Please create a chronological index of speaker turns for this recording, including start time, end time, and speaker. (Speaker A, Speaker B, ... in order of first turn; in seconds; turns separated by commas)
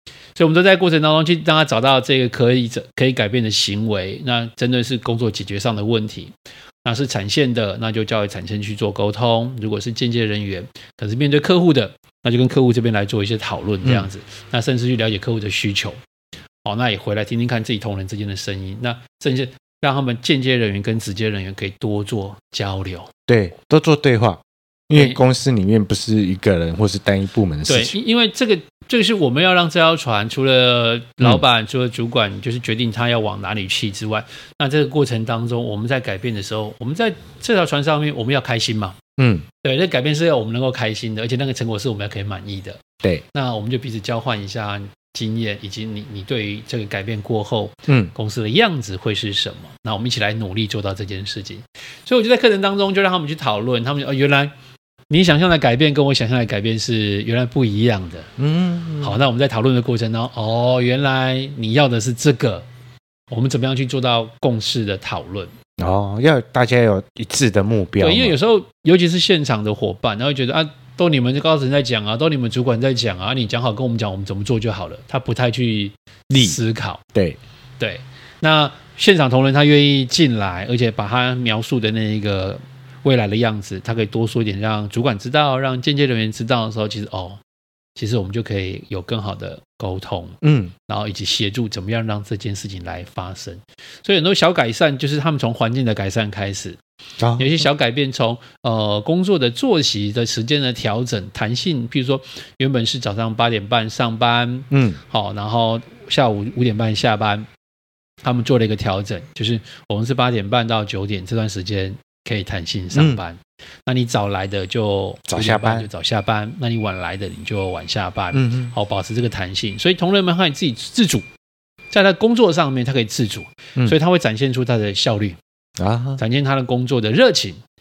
Speaker A: 0.3-6.3, Speaker A: 6.8-16.0, Speaker A: 16.6-23.1, Speaker B: 23.3-27.9, Speaker A: 24.9-25.2, Speaker A: 27.6-39.0, Speaker B: 39.2-39.5, Speaker A: 39.6-42.8, Speaker A: 43.3-54.5, Speaker B: 47.9-48.1, Speaker A: 55.1-58.3, Speaker B: 58.4-59.2, Speaker A: 59.0-62.6, Speaker A: 63.3-65.5, Speaker B: 65.8-68.3, Speaker A: 68.0-77.0, Speaker B: 76.3-76.6, Speaker A: 77.8-87.4, Speaker A: 88.0-90.3, Speaker B: 90.4-90.7, Speaker A: 90.9-96.8, Speaker B: 97.2-97.6, Speaker A: 97.3-107.5, Speaker B: 104.7-105.0, Speaker A: 108.2-121.2, Speaker B: 112.9-113.2, Speaker B: 115.3-115.9, Speaker B: 118.3-118.7, Speaker A: 121.9-125.4, Speaker B: 125.8-126.2, Speaker A: 126.2-127.6